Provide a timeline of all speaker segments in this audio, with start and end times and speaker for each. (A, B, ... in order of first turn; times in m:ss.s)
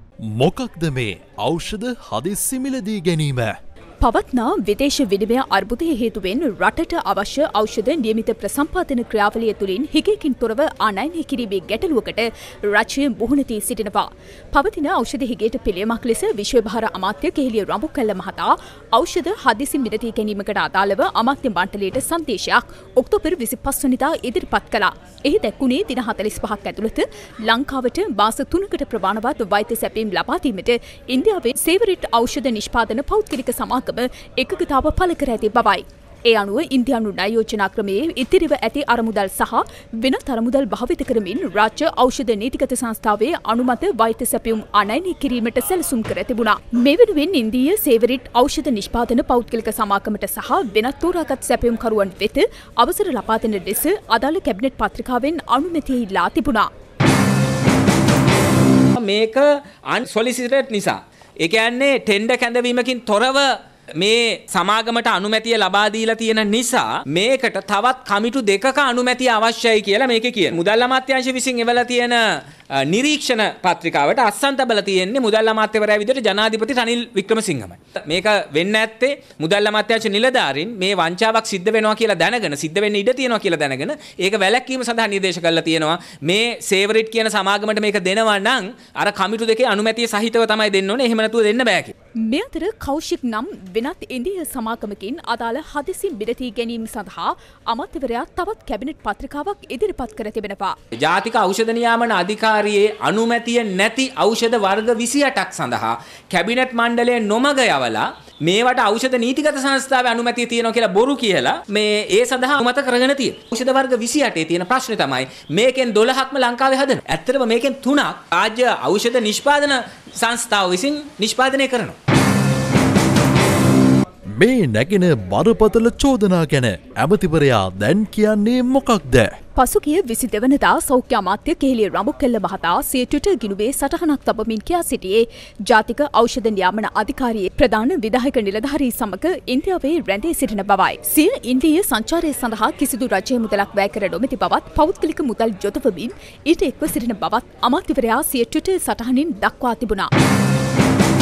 0:00.4-0:03.5 A
0:04.0-0:56.7 B
0:59.0-1:31.9 C
1:32.2-1:40.8 B
1:41.0-2:02.0 C
2:04.4-2:09.3 A
2:09.6-2:30.1 B